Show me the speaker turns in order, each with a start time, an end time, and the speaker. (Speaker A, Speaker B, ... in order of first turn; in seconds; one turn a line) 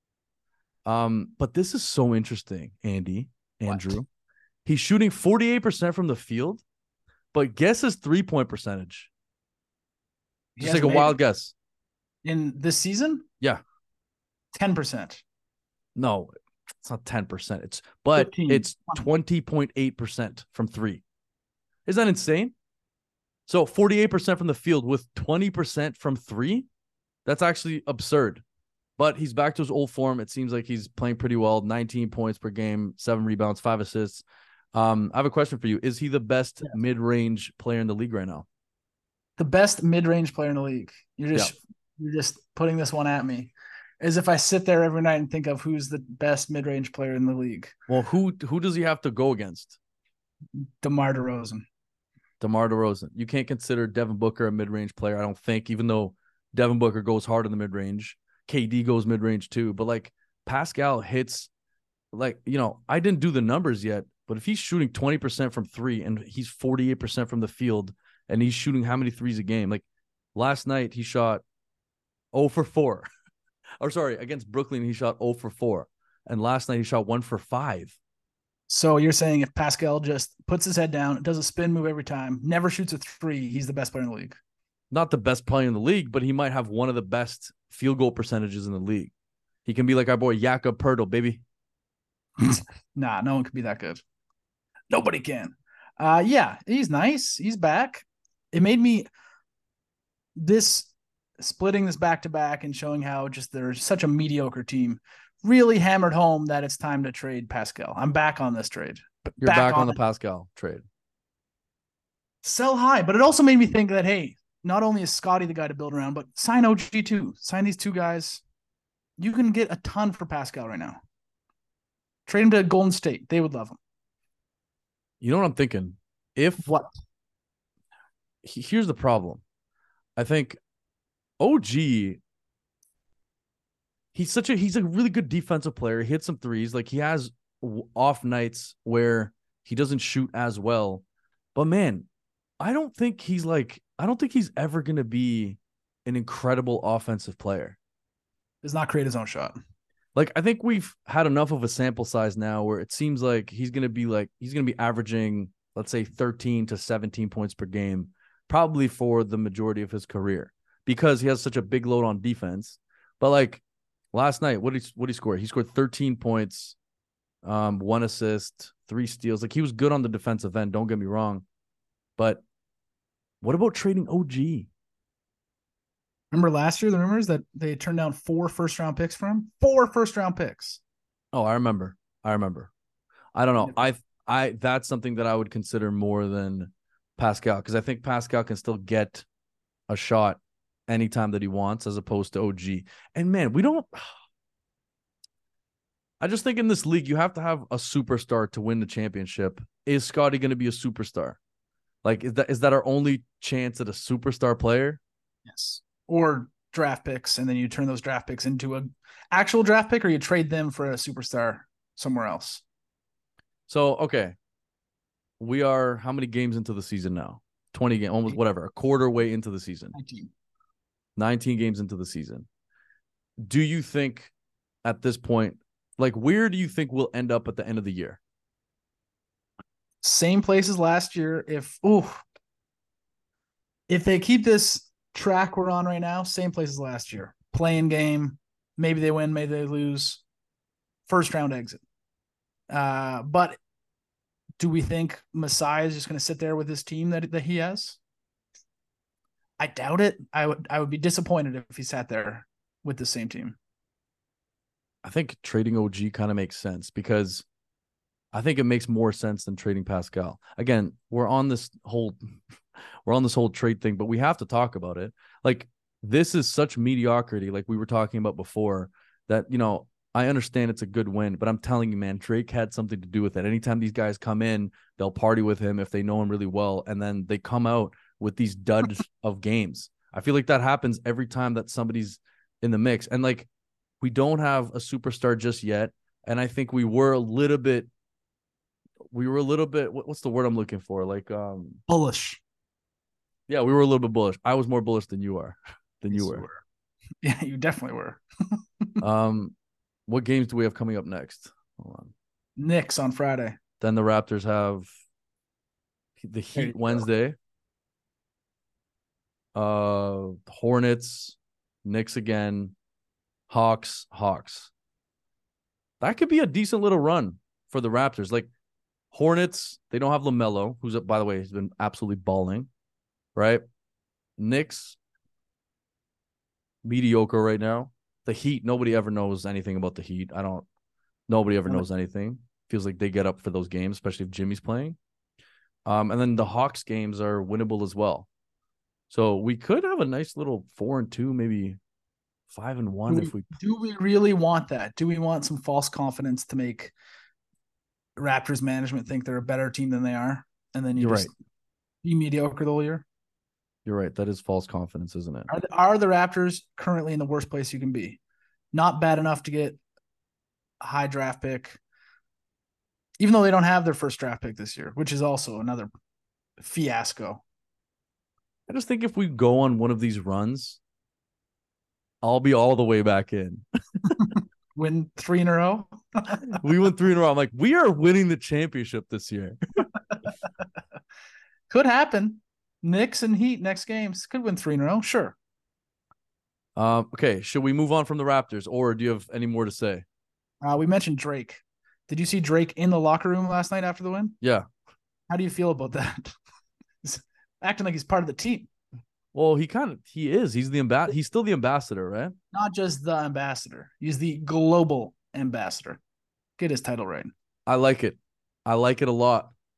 Speaker A: 0.8-4.1
Speaker A: 4.7-6.6
Speaker A: 7.3-9.1
Speaker B: 10.6-11.1
Speaker A: 10.6-11.5
Speaker B: 12.2-13.2
Speaker B: 14.5-15.2
Speaker A: 15.9-21.0
Speaker B: 18.1-19.0
Speaker A: 21.9-22.5
Speaker A: 23.5-26.7
Speaker A: 27.2-28.4
Speaker A: 29.0-38.5
Speaker B: 39.4-47.8
Speaker A: 47.9-49.8
Speaker B: 50.6-51.6
Speaker A: 52.4-61.5
Speaker A: 62.1-71.4
Speaker A: 72.3-73.0
Speaker A: 73.8-78.0
Speaker B: 78.7-84.4
Speaker A: 84.9-89.1
Speaker A: 89.7-91.4
Speaker B: 92.4-94.0
Speaker B: 94.9-99.1
Speaker B: 100.3-110.0
Speaker A: 109.4-110.8
Speaker B: 112.4-118.4
Speaker B: 119.2-121.0
Speaker B: 122.2-123.8
Speaker A: 125.2-126.7
Speaker A: 128.4-129.4
Speaker A: 130.2-130.6
Speaker A: 131.4-132.2
Speaker A: 134.1-141.0
Speaker A: 141.5-142.1
Speaker A: 142.6-147.8
Speaker B: 148.6-149.5
Speaker A: 150.1-166.8
Speaker A: 167.4-171.4
Speaker A: 172.2-172.4
Speaker A: 173.4-174.7
Speaker B: 176.3-180.8
Speaker A: 181.3-182.7
Speaker A: 183.3-189.2
Speaker A: 189.9-194.0
Speaker A: 196.2-201.4
Speaker A: 202.0-205.0
Speaker B: 205.5-212.6
Speaker A: 213.7-214.3
Speaker A: 215.4-219.9
Speaker B: 219.9-220.3
Speaker A: 221.2-222.5
Speaker A: 223.4-224.3
Speaker A: 224.8-228.2
Speaker B: 230.0-232.2
Speaker B: 233.9-240.2
Speaker B: 241.1-241.8
Speaker B: 242.7-243.6
Speaker B: 244.6-248.0
Speaker B: 249.6-253.6
Speaker A: 255.0-257.4
Speaker A: 258.3-262.2
Speaker A: 263.0-283.5
Speaker A: 284.0-287.9
Speaker A: 289.1-291.8
Speaker B: 291.9-292.4
Speaker A: 293.5-296.4
Speaker B: 296.1-296.6
Speaker B: 297.2-298.2
Speaker A: 299.0-299.5
Speaker A: 300.1-302.1
Speaker B: 302.6-303.6
Speaker A: 303.8-304.9
Speaker A: 306.2-307.4
Speaker B: 306.5-307.0
Speaker A: 309.5-312.7
Speaker A: 313.5-314.7
Speaker A: 316.0-318.5
Speaker A: 319.1-322.7
Speaker A: 323.3-323.6
Speaker A: 324.4-325.0
Speaker A: 326.8-330.7
Speaker A: 331.3-335.0
Speaker A: 335.9-338.3
Speaker A: 339.1-341.8
Speaker A: 342.5-343.5
Speaker B: 343.1-346.9
Speaker B: 348.2-351.3
Speaker A: 351.0-351.3
Speaker B: 352.0-353.1
Speaker A: 353.9-355.5
Speaker B: 355.5-358.2
Speaker B: 358.7-359.8
Speaker B: 360.8-361.8
Speaker B: 363.2-365.9
Speaker B: 366.6-367.4
Speaker A: 368.7-370.8
Speaker A: 372.2-374.2
Speaker B: 374.1-376.6
Speaker A: 376.5-379.6
Speaker B: 381.7-385.4
Speaker A: 386.8-390.0
Speaker B: 390.6-394.4
Speaker A: 394.4-394.7
Speaker B: 395.3-396.3
Speaker B: 397.0-398.7
Speaker A: 399.3-402.3
Speaker B: 402.5-406.0
Speaker B: 406.6-407.3
Speaker A: 407.6-409.5